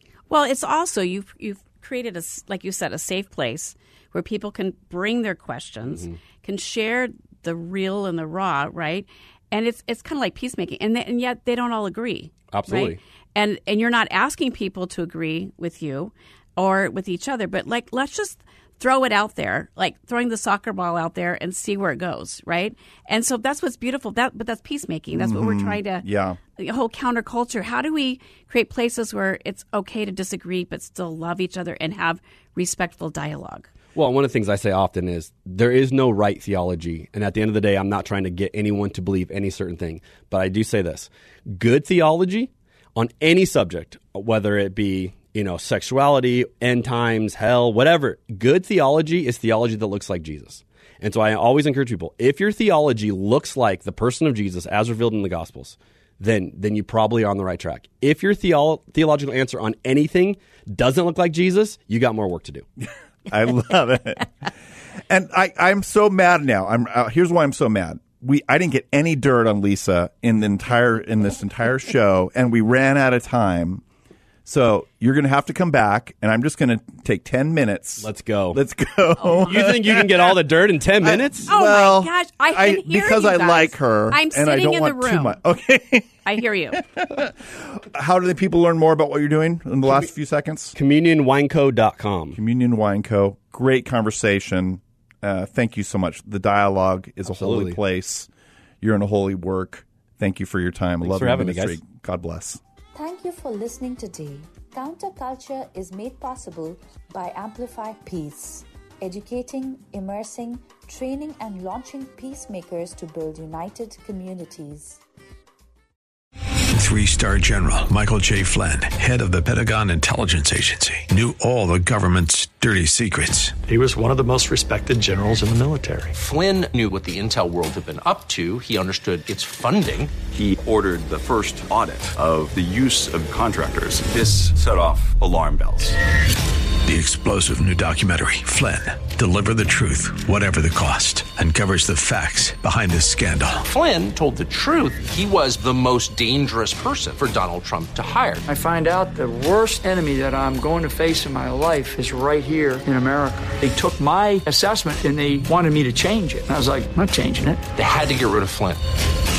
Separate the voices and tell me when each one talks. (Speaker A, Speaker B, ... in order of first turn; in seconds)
Speaker A: 0.3-26.1, 26.6-33.7, 81.5-85.4, 86.2-86.8
Speaker B: 12.5-13.0, 34.0-62.7, 78.0-78.6, 79.4-81.5, 90.8-92.4, 97.3-97.8, 101.0-101.8
Speaker C: 25.1-26.4, 63.3-64.5, 65.1-73.8, 74.5-80.4, 81.0-90.8, 92.3-98.3, 98.8-102.6
Speaker D: 103.0-115.0
Speaker E: 116.7-123.6, 136.8-143.6
Speaker F: 123.7-126.1
Speaker G: 126.2-130.2, 143.7-148.4, 157.7-158.8
Speaker H: 130.2-136.0
Speaker I: 148.5-157.7